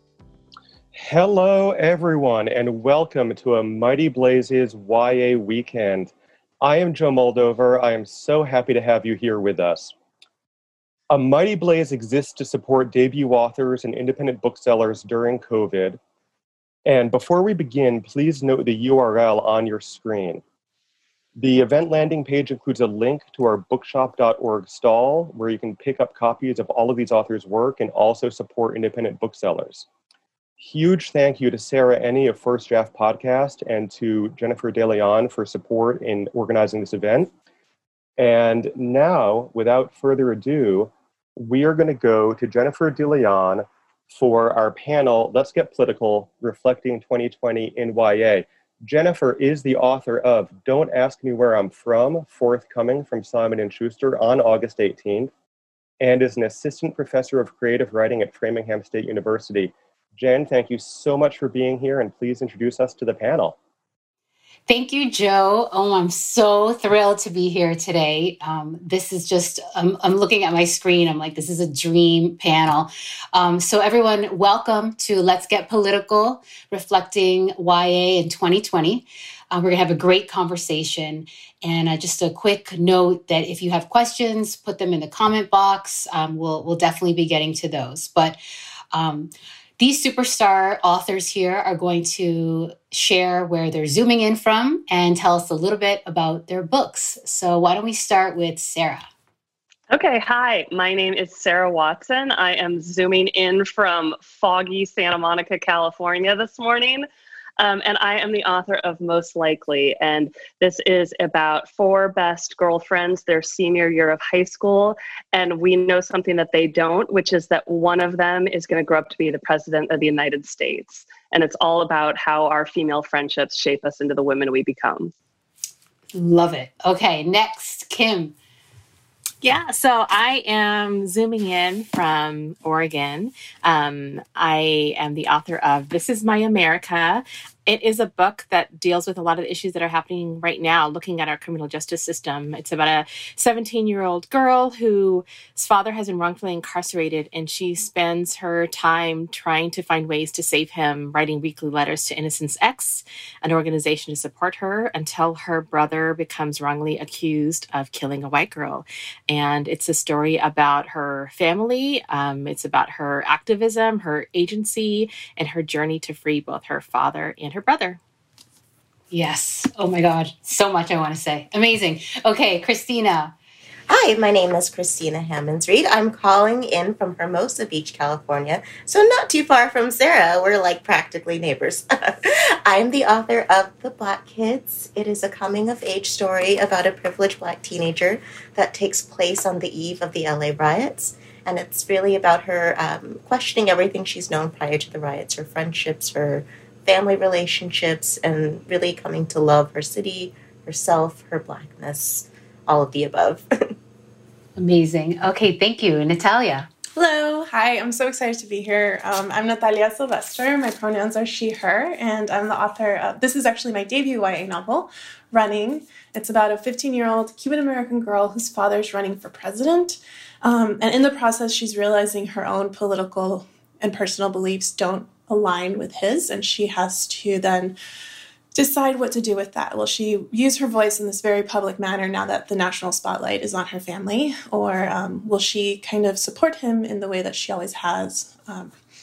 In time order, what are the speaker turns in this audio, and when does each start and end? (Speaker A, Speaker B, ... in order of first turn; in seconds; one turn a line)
Speaker A: 0.9-9.9
Speaker A: 11.1-16.0
Speaker A: 16.9-20.4
Speaker A: 21.4-29.9
Speaker A: 30.6-37.3
Speaker A: 38.2-55.3
Speaker A: 56.0-63.5
Speaker B: 64.7-88.4
Speaker B: 88.9-99.0
Speaker C: 99.9-107.0
Speaker C: 107.6-125.1
Speaker B: 126.1-128.3
Speaker D: 129.4-168.0
Speaker B: 169.1-173.3
Speaker E: 173.9-203.7
Speaker B: 204.6-206.7
Speaker F: 206.9-227.8
Speaker F: 228.5-238.7